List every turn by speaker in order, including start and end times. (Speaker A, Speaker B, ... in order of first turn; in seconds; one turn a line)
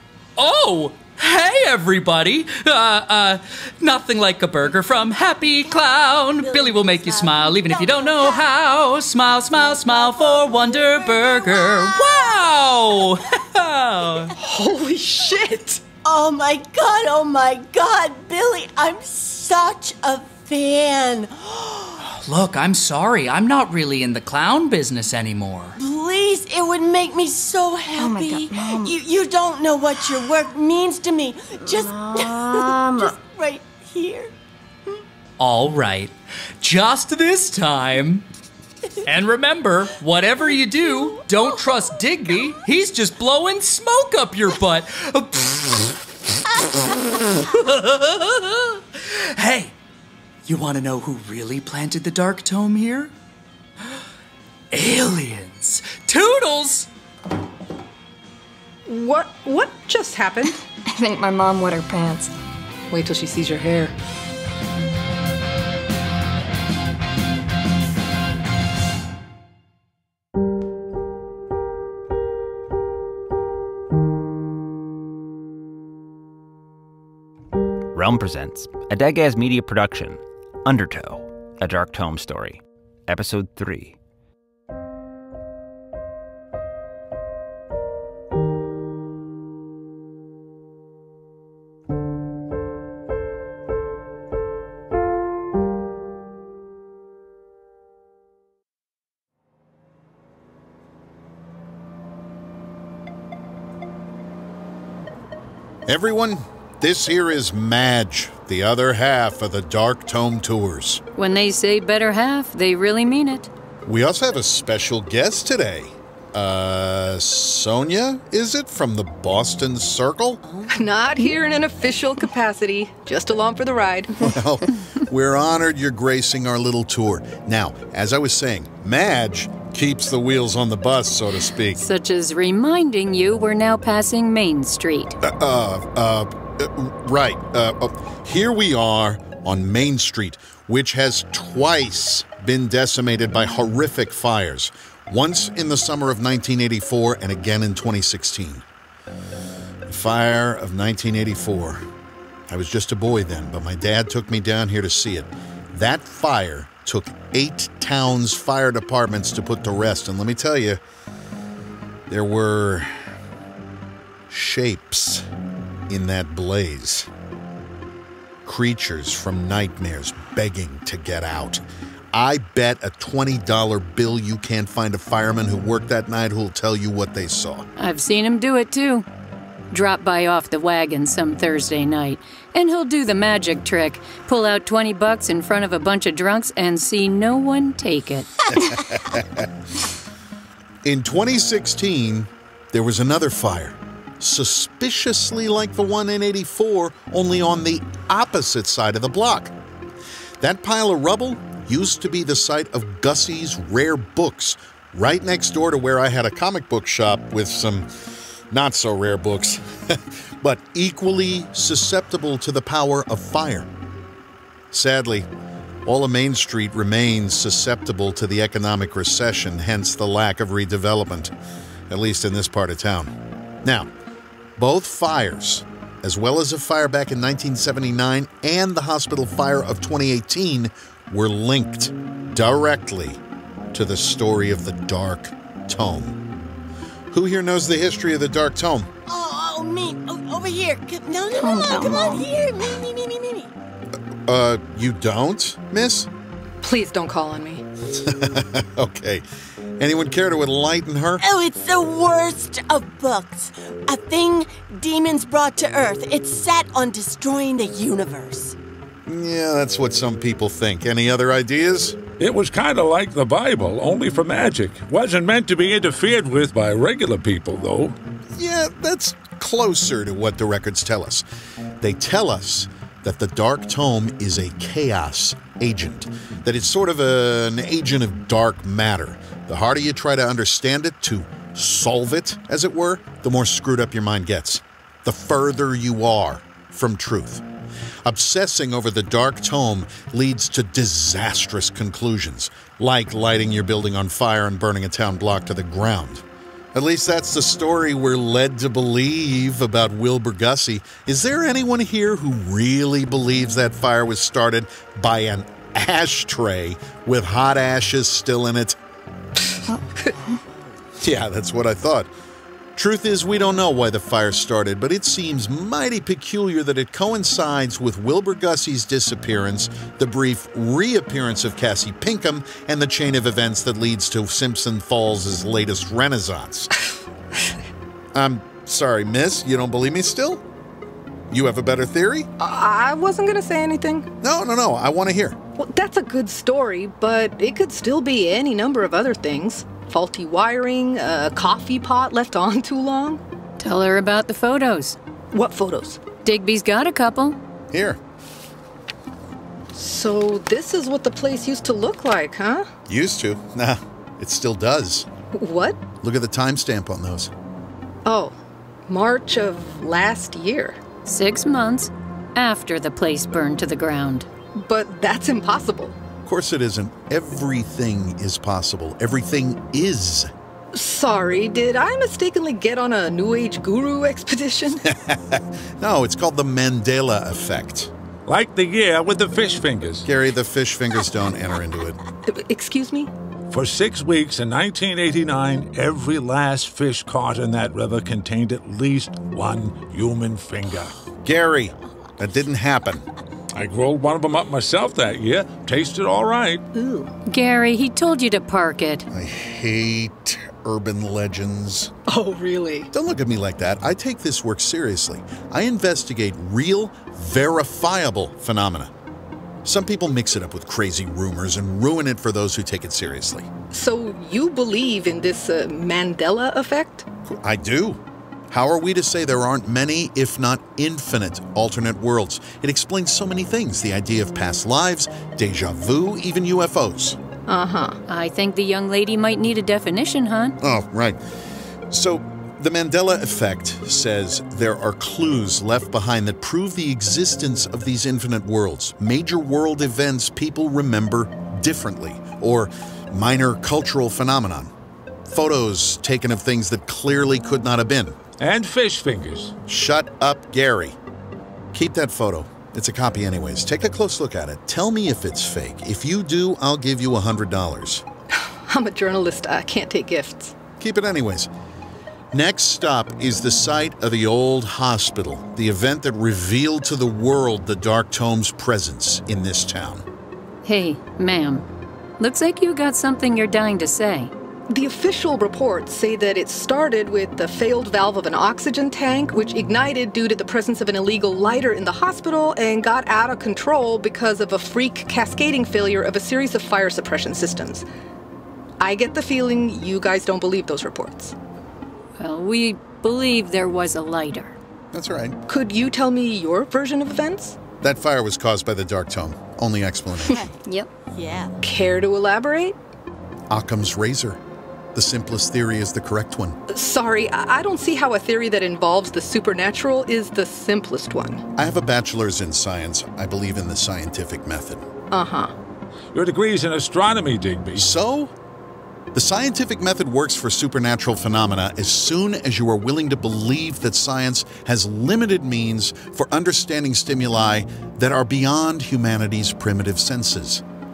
Speaker A: 0.4-14.3
Speaker B: 5.6-8.5
Speaker B: 9.6-12.7
Speaker C: 14.4-15.8
Speaker B: 16.0-22.0
Speaker A: 22.0-25.8
Speaker B: 25.8-34.3
Speaker D: 28.0-29.0
Speaker D: 31.6-33.1
Speaker A: 35.4-38.3
Speaker A: 39.0-45.9
Speaker A: 47.5-49.7
Speaker A: 50.5-53.1
Speaker A: 54.7-56.9
Speaker C: 58.9-60.6
Speaker D: 60.9-62.4
Speaker C: 62.9-63.9
Speaker E: 77.9-84.0
Speaker F: 105.9-111.0
Speaker G: 111.2-113.5
Speaker F: 113.8-120.4
Speaker C: 120.7-124.3
Speaker F: 124.2-131.8
Speaker G: 131.8-135.2
Speaker F: 135.2-148.6
Speaker F: 149.9-151.8
Speaker F: 152.5-160.8
Speaker F: 162.1-162.9
Speaker F: 164.3-165.2
Speaker F: 165.9-167.1
Speaker F: 168.4-177.7
Speaker G: 177.8-179.1
Speaker G: 179.7-188.3
Speaker F: 188.5-189.5
Speaker F: 190.8-199.5
Speaker F: 200.4-207.9
Speaker F: 208.5-213.7
Speaker F: 214.7-215.3
Speaker F: 215.8-221.3
Speaker F: 221.9-223.9
Speaker F: 224.6-233.2
Speaker F: 233.7-236.2
Speaker F: 237.1-238.9
Speaker B: 239.1-243.5
Speaker D: 241.3-242.3
Speaker F: 244.3-246.1
Speaker C: 246.6-247.6
Speaker F: 247.9-249.2
Speaker F: 249.8-251.2
Speaker B: 251.2-258.6
Speaker F: 259.1-262.0
Speaker H: 262.2-267.9
Speaker F: 268.4-271.2
Speaker F: 271.8-287.4
Speaker F: 288.1-308.8
Speaker B: 310.1-310.4
Speaker F: 311.0-312.1
Speaker F: 312.8-326.7
Speaker F: 328.1-330.4
Speaker F: 331.3-332.3
Speaker C: 332.4-334.1
Speaker F: 334.2-335.4
Speaker C: 335.6-343.2
Speaker G: 343.6-345.0
Speaker C: 345.3-346.0
Speaker G: 346.2-347.4
Speaker F: 347.7-348.0
Speaker C: 349.8-352.7
Speaker F: 352.9-355.1
Speaker C: 355.3-355.8
Speaker F: 356.0-357.3
Speaker C: 358.1-358.4
Speaker C: 358.9-360.8
Speaker G: 361.1-364.3
Speaker C: 364.6-366.0
Speaker F: 366.2-370.3
Speaker C: 370.7-374.9
Speaker F: 374.9-377.9
Speaker H: 378.3-380.1
Speaker F: 380.1-382.0
Speaker C: 382.3-383.1
Speaker H: 383.5-390.9
Speaker F: 391.2-393.1
Speaker H: 393.5-396.6
Speaker C: 396.8-397.1
Speaker G: 397.3-399.1
Speaker F: 399.1-401.9
Speaker C: 402.1-402.9
Speaker F: 402.9-408.9
Speaker F: 409.6-413.5
Speaker C: 413.7-417.1
Speaker F: 417.3-427.2
Speaker C: 427.5-428.0
Speaker G: 428.1-430.6
Speaker F: 430.6-431.2
Speaker F: 431.9-444.7
Speaker F: 445.3-448.2
Speaker H: 448.4-449.6
Speaker F: 449.7-451.0
Speaker F: 451.7-458.1
Speaker C: 458.4-460.5
Speaker F: 460.8-461.5
Speaker F: 462.3-470.1
Speaker G: 470.6-471.6
Speaker G: 472.2-474.3
Speaker C: 474.7-487.9
Speaker C: 488.8-491.4
Speaker G: 492.2-494.6
Speaker F: 494.9-495.4
Speaker C: 495.5-497.6
Speaker F: 497.8-500.4
Speaker B: 501.1-501.5
Speaker C: 501.6-502.8
Speaker F: 503.5-504.4
Speaker F: 504.9-506.6
Speaker C: 506.7-511.4
Speaker F: 511.6-514.8
Speaker C: 515.1-515.5
Speaker H: 516.1-517.9
Speaker F: 517.8-518.3
Speaker F: 519.1-530.6